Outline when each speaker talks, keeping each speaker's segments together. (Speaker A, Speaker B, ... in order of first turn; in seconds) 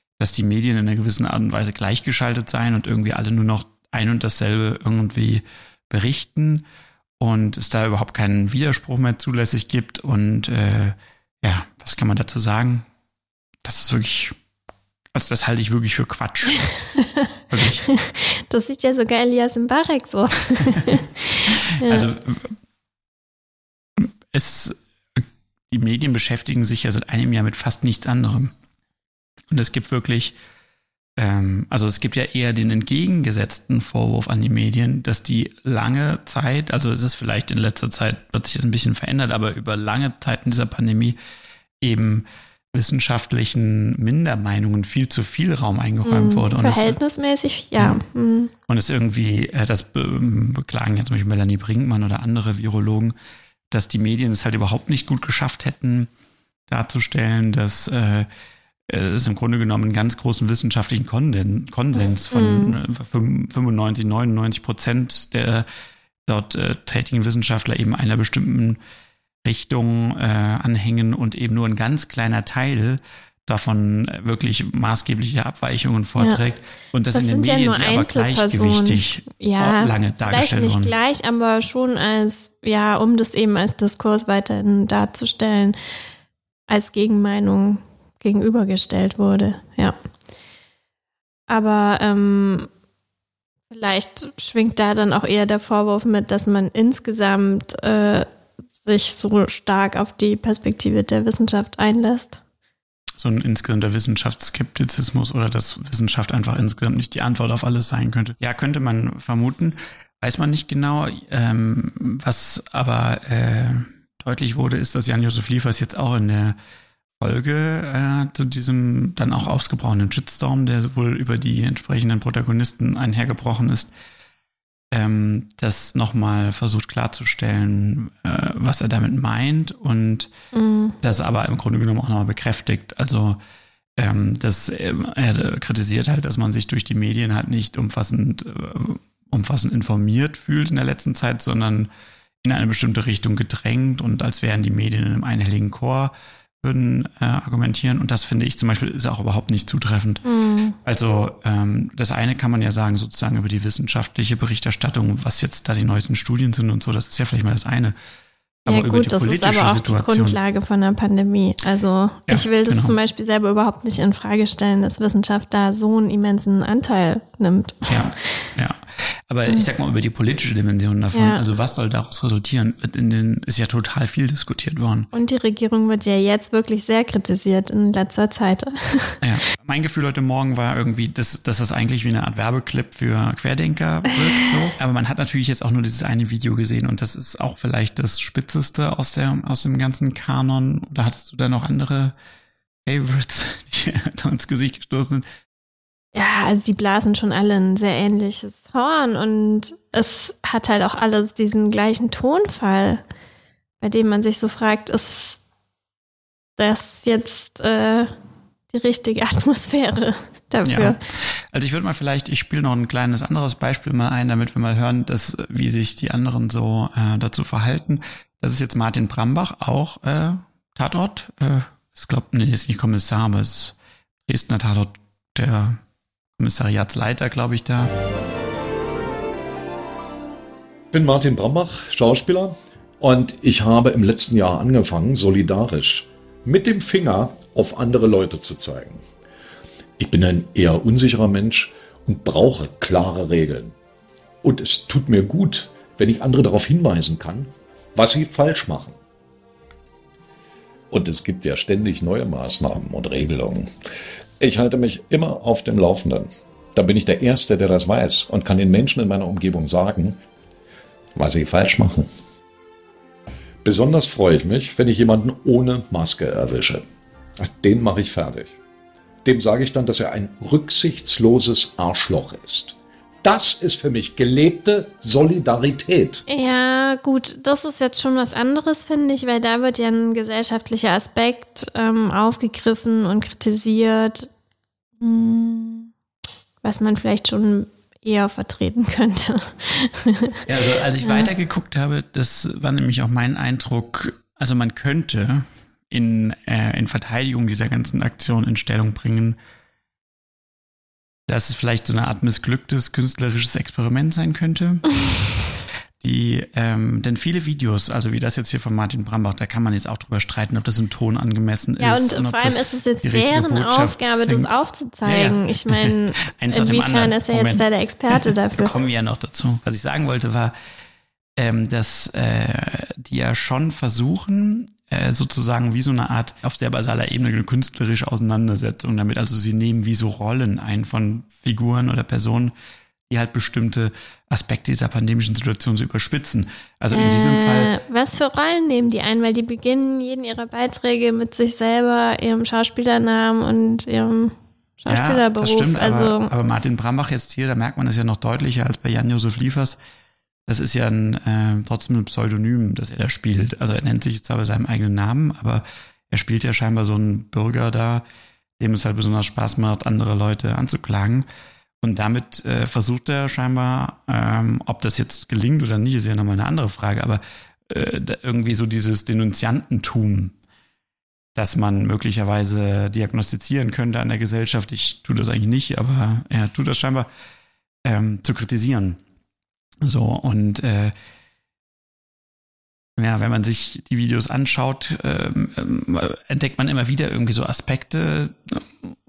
Speaker A: 0.2-6.6, 7.2-12.9, 13.6-14.3, 15.1-16.7, 17.5-17.9, 21.9-22.5, 24.0-28.5, 29.5-30.4, 31.2-41.2, 41.8-47.0, 48.7-53.1, 53.7-56.1, 56.7-58.3, 58.9-65.7, 66.3-68.8, 69.4-80.9, 103.2-116.6, 117.2-123.9, 124.9-130.3, 131.0-133.4, 134.0-141.9, 142.4-150.2, 150.8-157.9, 158.7-160.4, 162.3-163.0, 167.9-175.1, 179.2-192.1, 192.8-195.2, 210.7-225.8, 226.4-227.9, 290.5-299.4, 301.3-305.0, 306.0-314.5, 315.1-320.5, 321.4-332.5, 333.1-337.7, 344.9-349.8, 350.5-358.0, 358.6-361.3, 361.8-370.4, 371.4-377.1, 377.9-379.0, 379.8-380.9, 383.0-388.9
Speaker B: 17.9-22.1, 46.0-48.5, 62.3-62.7, 77.1-85.8, 86.7-90.0, 91.5-92.7, 93.7-98.3, 98.8-102.4, 130.5-131.0, 150.2-150.8, 158.7-167.9, 171.1-171.4, 175.1-179.2, 196.2-203.0, 203.8-205.4, 206.6-208.1, 208.7-211.0, 276.3-284.3, 285.0-285.9, 286.6-290.4, 291.0-291.3, 311.8-318.7, 336.9-346.3
Speaker C: 230.9-239.0, 240.0-243.7, 244.4-249.0, 250.9-253.7, 254.4-260.2, 261.1-262.1, 263.6-266.9, 267.4-268.6, 269.2-276.2